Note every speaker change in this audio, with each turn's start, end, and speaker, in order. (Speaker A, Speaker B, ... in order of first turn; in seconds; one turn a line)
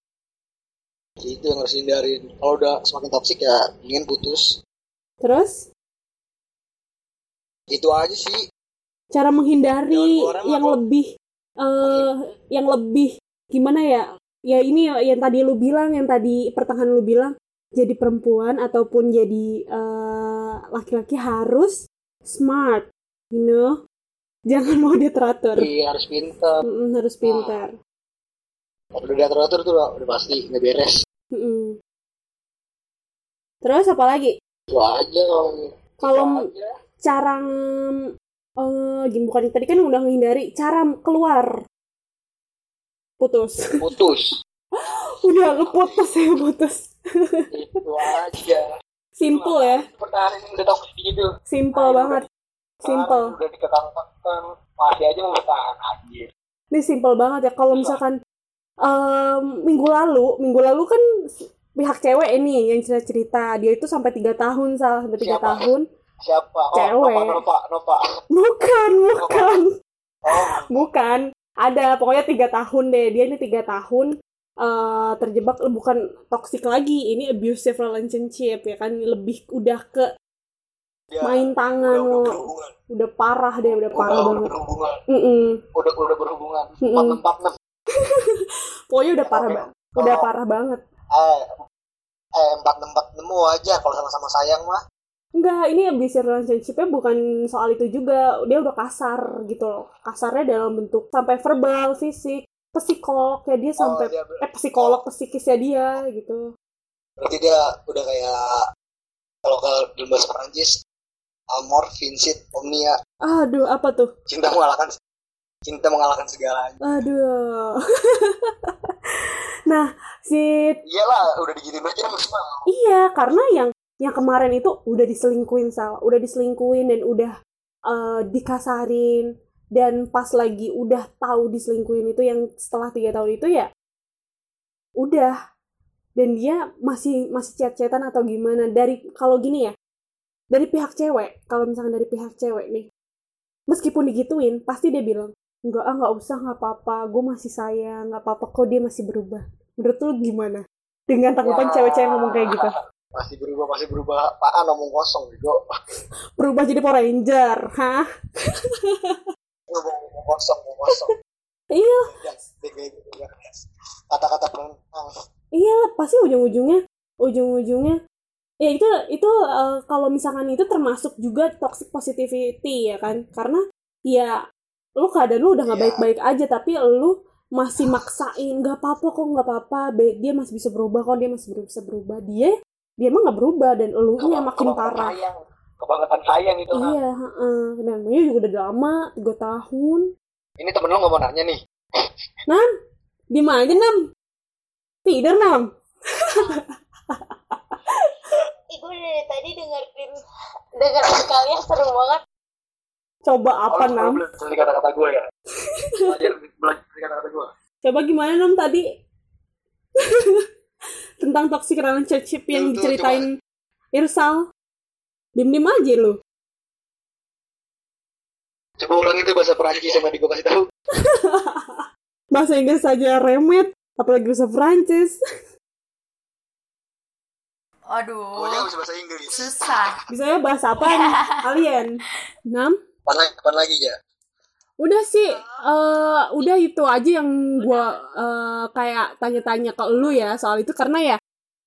Speaker A: 1.2-4.6
Speaker B: 5.2-5.7
Speaker A: 7.7-8.4
Speaker B: 9.1-11.1
Speaker A: 9.9-10.8
Speaker B: 11.6-23.8
Speaker B: 24.5-25.7
Speaker A: 25.6-26.6
Speaker B: 26.6-27.8
Speaker A: 27.2-27.6
Speaker A: 29.0-30.9
Speaker B: 31.3-31.8
Speaker B: 33.6-34.3
Speaker A: 34.7-36.7
Speaker B: 36.0-36.5
Speaker B: 37.0-38.1
Speaker B: 38.6-41.6
Speaker B: 43.2-43.8
Speaker A: 43.8-44.3
Speaker B: 44.8-47.4
Speaker A: 45.5-46.1
Speaker A: 47.5-48.7
Speaker B: 48.1-48.4
Speaker B: 49.2-49.8
Speaker A: 49.3-52.2
Speaker B: 51.5-52.2
Speaker B: 52.8-53.3
Speaker A: 52.8-56.3
Speaker B: 56.7-58.2
Speaker A: 57.7-58.0
Speaker B: 58.8-61.0
Speaker B: 61.8-65.8
Speaker A: 65.2-65.6
Speaker A: 66.3-68.0
Speaker B: 66.8-67.4
Speaker B: 68.3-69.7
Speaker A: 69.2-69.5
Speaker A: 70.3-70.8
Speaker B: 70.3-74.1
Speaker B: 74.6-80.1
Speaker A: 81.1-82.7
Speaker B: 81.2-82.3
Speaker B: 82.9-84.5
Speaker A: 83.7-84.9
Speaker B: 85.1-85.6
Speaker A: 85.8-87.5
Speaker B: 86.8-87.2
Speaker B: 87.9-90.8
Speaker A: 89.3-90.3
Speaker A: 91.2-91.5
Speaker A: 92.4-94.8
Speaker B: 95.4-106.4
Speaker A: 103.8-105.0
Speaker A: 107.2-108.6
Speaker A: 109.5-110.8
Speaker A: 111.5-113.0
Speaker B: 113.2-114.1
Speaker A: 114.3-114.9
Speaker A: 115.7-116.8
Speaker B: 116.8-120.8
Speaker A: 120.9-122.6
Speaker B: 122.7-127.3
Speaker B: 127.9-133.7
Speaker B: 135.0-135.3
Speaker B: 136.2-139.7
Speaker B: 140.5-142.9
Speaker B: 143.7-152.8
Speaker A: 151.4-155.6
Speaker B: 156.4-159.3
Speaker A: 159.7-161.1
Speaker B: 161.7-162.1
Speaker A: 162.1-163.3
Speaker A: 164.1-165.1
Speaker B: 165.6-168.0
Speaker B: 168.6-174.4
Speaker B: 175.0-185.1
Speaker A: 175.7-176.1
Speaker A: 184.2-186.9
Speaker B: 186.7-190.1
Speaker A: 190.6-191.6
Speaker B: 193.3-194.0
Speaker B: 195.1-197.8
Speaker C: 198.8-200.0
Speaker C: 200.8-202.1
Speaker B: 203.3-204.2
Speaker A: 203.7-205.2
Speaker A: 206.0-207.5
Speaker B: 207.8-208.8
Speaker B: 210.0-210.5
Speaker B: 211.2-213.3
Speaker A: 212.5-213.2
Speaker B: 213.9-214.4
Speaker B: 215.4-216.2
Speaker A: 218.8-220.6
Speaker B: 221.0-225.2
Speaker C: 227.9-228.7
Speaker A: 228.3-229.7
Speaker C: 229.3-229.9
Speaker B: 230.1-231.9
Speaker C: 230.8-231.4
Speaker B: 232.5-232.8
Speaker A: 233.1-233.9
Speaker B: 234.8-241.2